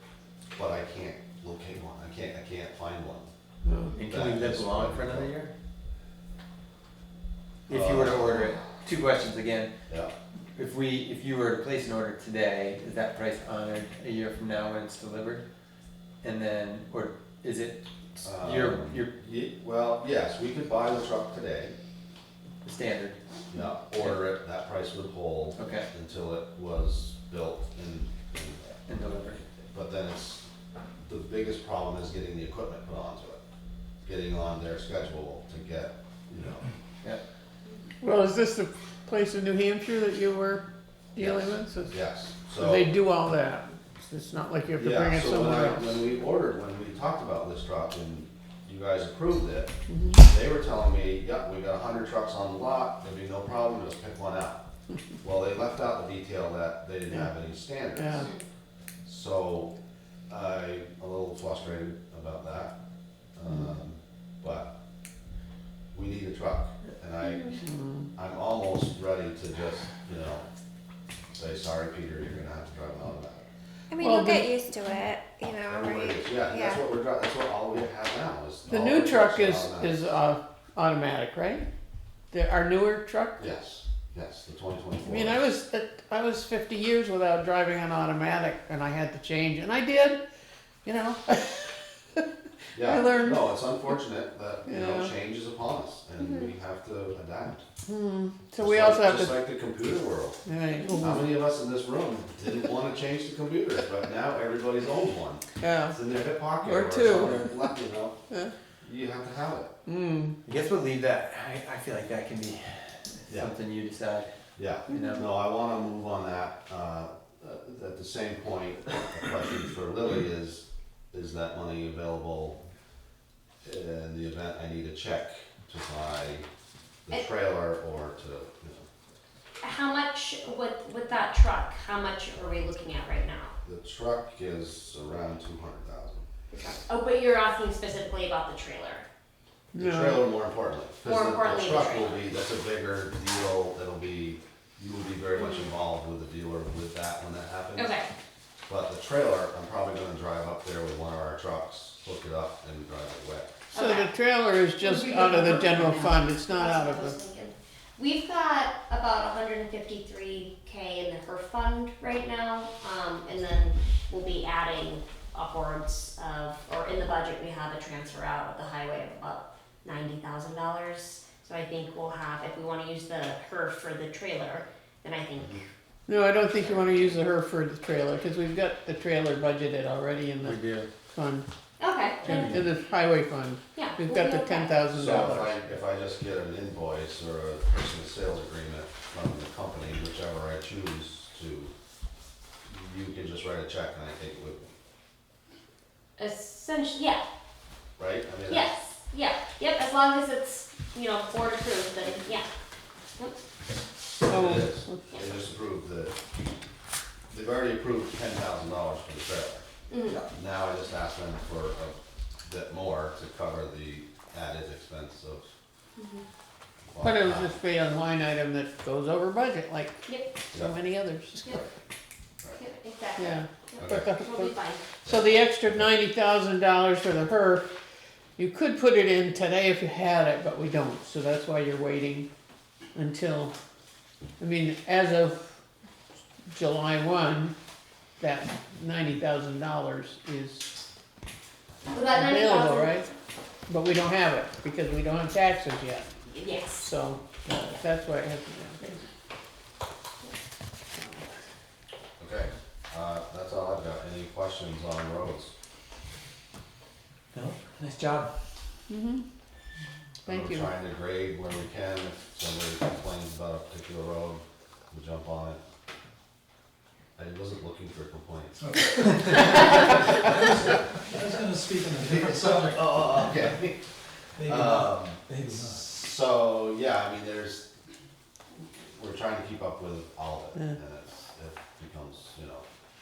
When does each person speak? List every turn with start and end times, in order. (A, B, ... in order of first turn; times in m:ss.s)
0:00.6-0:03.3 A
0:03.6-0:04.0 B
0:03.9-0:05.5 C
0:04.1-0:05.4 A
0:07.7-0:09.7 C
0:07.7-0:08.7 A
0:09.9-0:10.1 A
0:10.6-0:15.4 C
0:16.2-0:19.1 C
0:18.2-0:21.8 A
0:22.6-0:23.2 C
0:23.5-0:28.7 A
0:24.0-0:24.3 C
0:25.6-0:25.9 C
0:28.8-0:29.4 C
0:29.6-0:30.4 A
0:31.0-0:33.4 A
0:34.0-0:36.7 A
0:38.0-0:40.6 B
0:41.2-0:42.0 B
0:41.2-0:42.9 A
0:42.5-0:46.0 B
0:44.8-0:49.7 A
0:49.9-0:50.2 B
0:50.2-0:54.6 A
0:55.2-0:58.3 A
0:57.9-0:58.3 B
0:58.2-0:58.4 D
0:59.0-0:59.7 A
1:00.3-1:02.8 A
1:03.4-1:04.7 A
1:05.9-1:07.6 A
1:07.6-1:08.1 B
1:08.2-1:10.5 A
1:11.3-1:13.5 A
1:13.9-1:16.8 E
1:14.0-1:14.5 B
1:15.6-1:20.0 A
1:18.7-1:21.7 B
1:22.3-1:23.4 B
1:23.4-1:25.5 A
1:25.0-1:30.2 B
1:30.8-1:32.2 B
1:32.8-1:37.6 A
1:32.8-1:33.9 B
1:34.7-1:35.1 B
1:36.2-1:36.5 D
1:37.9-1:39.4 B
1:38.6-1:40.4 A
1:40.5-1:41.3 B
1:41.0-1:48.2 A
1:45.6-1:46.0 B
1:46.6-1:47.7 B
1:48.8-1:49.7 A
1:49.9-1:50.4 B
1:50.4-1:54.3 C
1:53.3-1:53.5 A
1:54.6-2:02.6 A
1:54.9-1:55.3 C
2:03.6-2:06.5 A
2:07.1-2:08.9 A
2:09.6-2:13.5 D
2:13.6-2:16.3 A
2:16.5-2:19.1 D
2:19.7-2:20.3 B
2:19.8-2:28.0 A
2:21.0-2:22.2 D
2:25.4-2:25.7 D
2:27.8-2:28.1 D
2:28.7-2:33.5 A
2:33.7-2:34.1 D
2:33.8-2:37.2 B
2:34.8-2:55.6 D
2:56.1-3:01.5 B
2:56.6-2:57.0 D
3:00.4-3:00.9 C
3:01.8-3:02.5 D
3:02.2-3:05.6 B
3:03.8-3:04.8 D
3:04.9-3:11.7 A
3:12.7-3:14.7 A
3:16.2-3:17.2 D
3:18.0-3:18.7 A
3:18.5-3:22.5 D
3:24.2-3:26.2 A
3:24.3-3:25.1 B
3:27.3-3:29.7 A
3:29.9-3:30.2 D
3:30.3-3:35.5 A
3:36.0-3:36.2 D
3:36.9-3:37.6 A
3:37.0-3:40.0 B
3:40.1-3:40.4 D
3:40.5-3:41.6 B
3:41.4-3:41.7 A
3:42.6-3:44.9 D
3:43.2-3:47.7 B
3:43.8-3:44.1 A
3:45.0-3:45.9 A
3:48.4-3:52.3 B
3:53.0-3:53.5 B
3:54.4-3:55.6 B
3:56.5-3:57.5 B
3:58.2-4:00.7 B
4:01.9-4:03.0 D
4:02.1-4:03.1 B
4:03.7-4:06.1 B
4:06.3-4:06.9 D
4:06.7-4:08.8 B
4:12.2-4:15.5 A
4:17.3-4:18.3 C
4:18.9-4:19.2 B
4:20.2-4:20.7 B
4:20.3-4:25.6 A
4:27.2-4:30.0 A
4:28.6-4:33.5 F
4:32.0-4:33.8 A
4:34.4-4:35.9 F
4:34.4-4:37.7 A
4:38.9-4:42.6 A